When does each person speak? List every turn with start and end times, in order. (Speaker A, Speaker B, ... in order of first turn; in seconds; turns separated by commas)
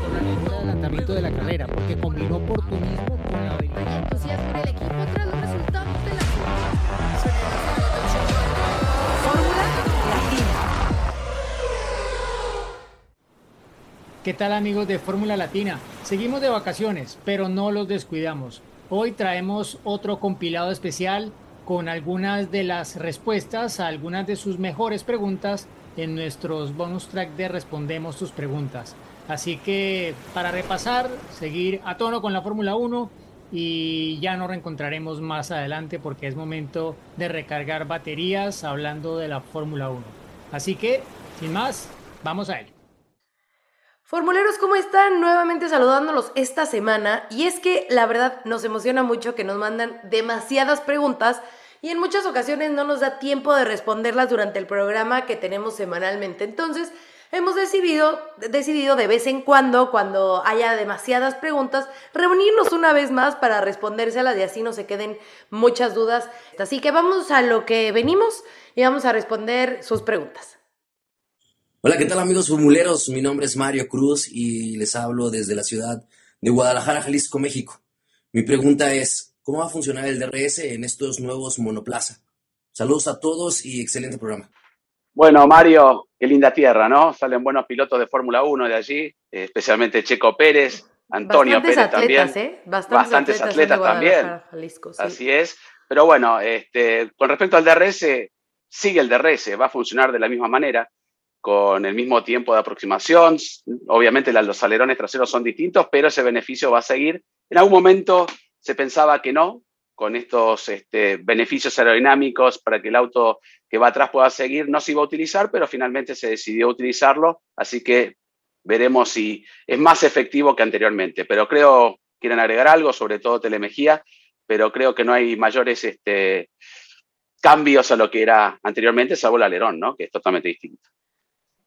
Speaker A: 0.1-3.0, Speaker B: 3.7-8.6, Speaker B: 9.1-10.6, Speaker A: 14.2-42.7, Speaker B: 44.1-70.5, Speaker C: 71.8-77.8, Speaker C: 78.3-82.2, Speaker C: 82.7-84.5, Speaker D: 85.2-92.3, Speaker B: 91.3-95.2, Speaker D: 92.9-94.3, Speaker D: 95.0-100.9, Speaker D: 101.4-118.1, Speaker D: 118.6-126.5, Speaker D: 127.4-130.8